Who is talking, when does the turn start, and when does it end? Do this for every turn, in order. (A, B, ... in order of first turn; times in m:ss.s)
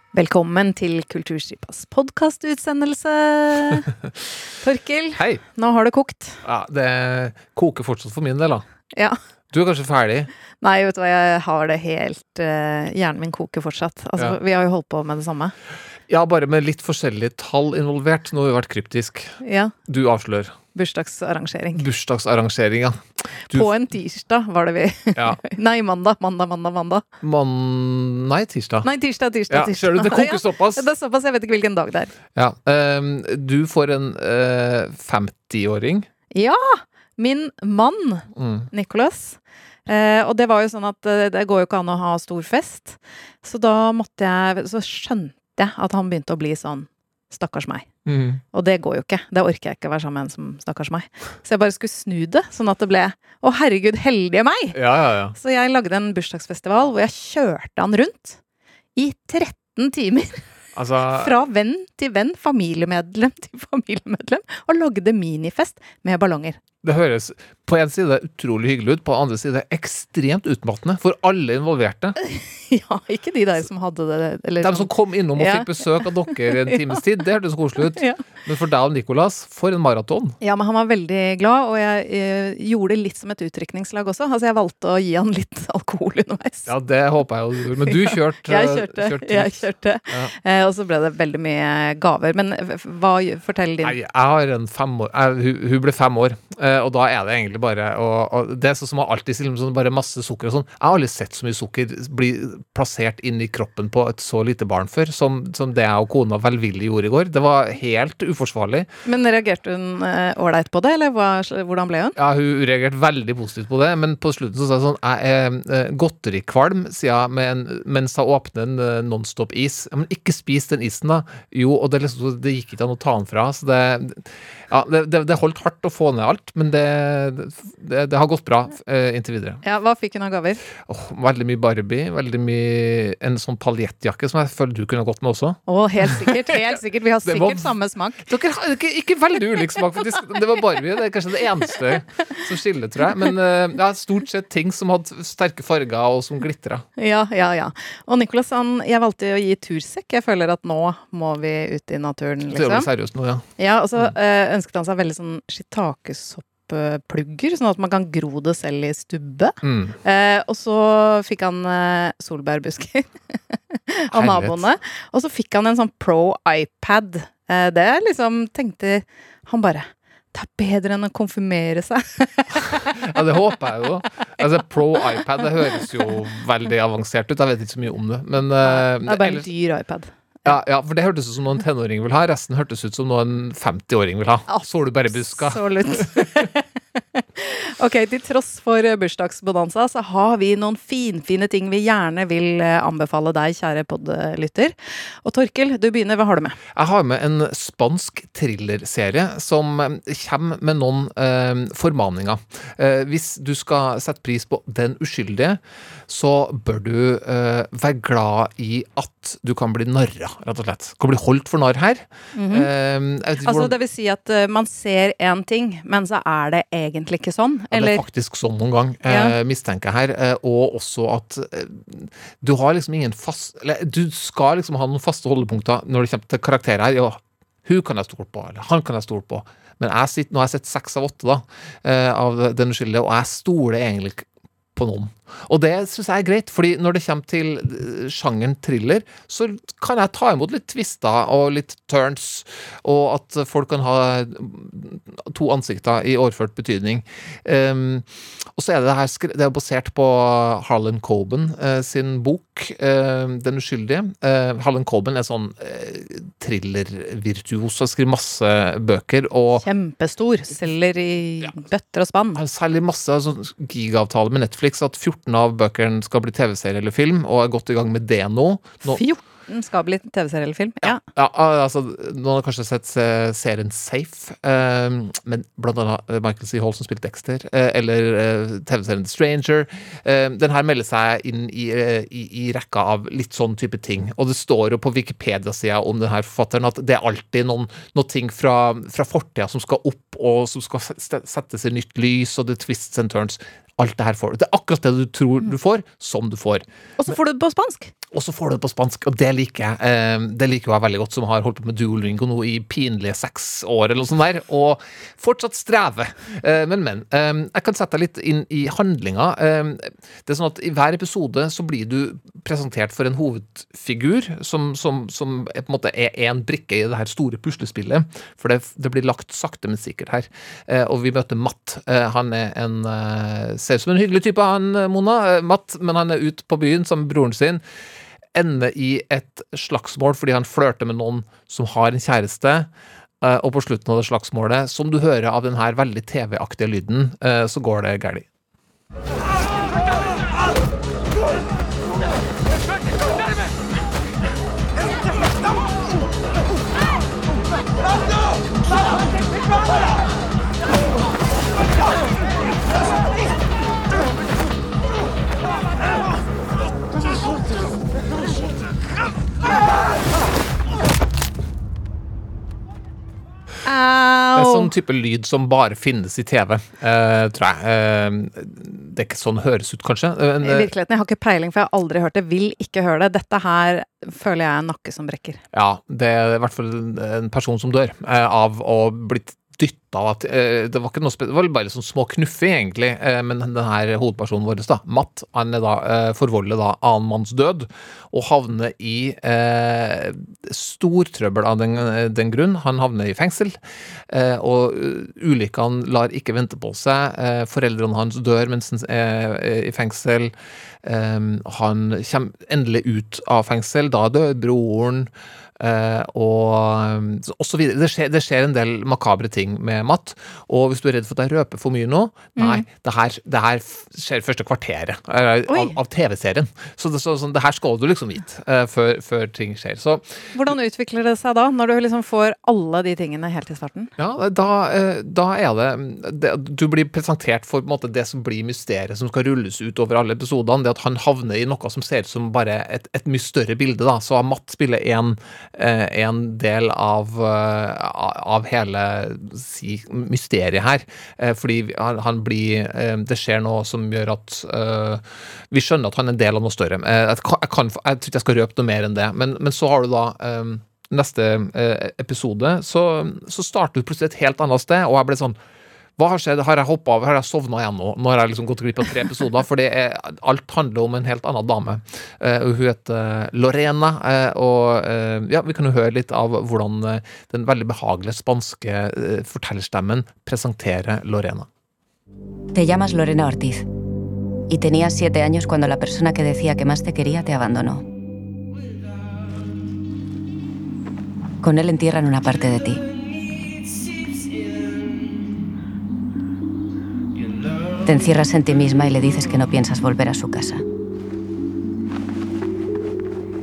0:00.1-0:03.9 A
0:04.6-0:06.4 A
0:05.2-0:05.4 B
0:06.4-0:08.6 B
0:09.5-0:10.3 B
0:10.6-0:15.5 A
0:16.1-0:19.4 B
0:19.4-0:19.8 A
0:19.9-0:20.6 B
0:20.7-0:21.8 A
0:21.7-0:23.7 B
0:23.5-0:27.0 A
0:25.1-0:25.4 B
0:27.2-0:28.9 B
0:28.8-0:32.1 A
0:29.5-0:30.9 B
0:32.4-0:36.1 B
0:36.3-0:47.9 A
0:38.4-0:38.7 B
0:48.1-0:48.4 B
0:48.5-0:54.8 A
0:54.7-0:55.4 B
0:55.4-0:58.4 A
0:59.0-1:00.4 A
1:00.8-1:01.4 B
1:01.1-1:06.6 A
1:06.8-1:12.2 B
1:12.2-1:17.0 A
1:14.6-1:20.4 B
1:17.8-1:18.2 A
1:20.4-1:26.7 A
1:26.7-1:30.3 B
1:27.9-1:34.0 A
1:33.8-1:48.9 B
1:49.1-1:52.2 A
1:52.2-2:09.6 B
2:09.6-2:10.6 A
2:10.9-2:17.7 B
2:15.7-2:18.2 A
2:18.2-2:26.8 B
2:27.0-2:32.9 A
2:32.5-2:33.4 B
2:33.6-2:43.1 A
2:39.6-2:40.0 B
2:43.7-2:53.0 A
2:44.1-2:44.7 B
2:52.8-2:59.5 B
2:58.6-3:00.1 A
3:00.4-3:06.4 B
3:04.5-3:06.6 A
3:07.2-3:16.6 A
3:16.8-3:33.8 B
3:32.4-3:32.7 A
3:33.4-3:38.0 A
3:37.7-4:19.7 B
3:39.1-3:39.4 A
4:19.6-4:22.4 A
4:22.4-4:29.0 B
4:28.8-4:31.0 A
4:30.8-4:56.6 B
4:57.0-4:57.9 A
4:58.1-5:27.6 B
5:28.3-5:32.7 B
5:33.2-5:38.3 B
6:03.6-6:04.7 A
6:04.4-6:10.7 B
6:10.4-6:15.4 A
6:15.5-6:40.3 B
6:40.8-7:00.5 B
6:52.4-6:52.7 A
6:55.5-6:55.8 A
7:00.4-7:03.9 A
7:04.0-7:35.4 B
7:36.0-7:51.5 B
7:52.5-7:53.7 C
7:54.5-7:57.8 C
8:01.4-8:02.8 C
8:07.8-8:10.6 C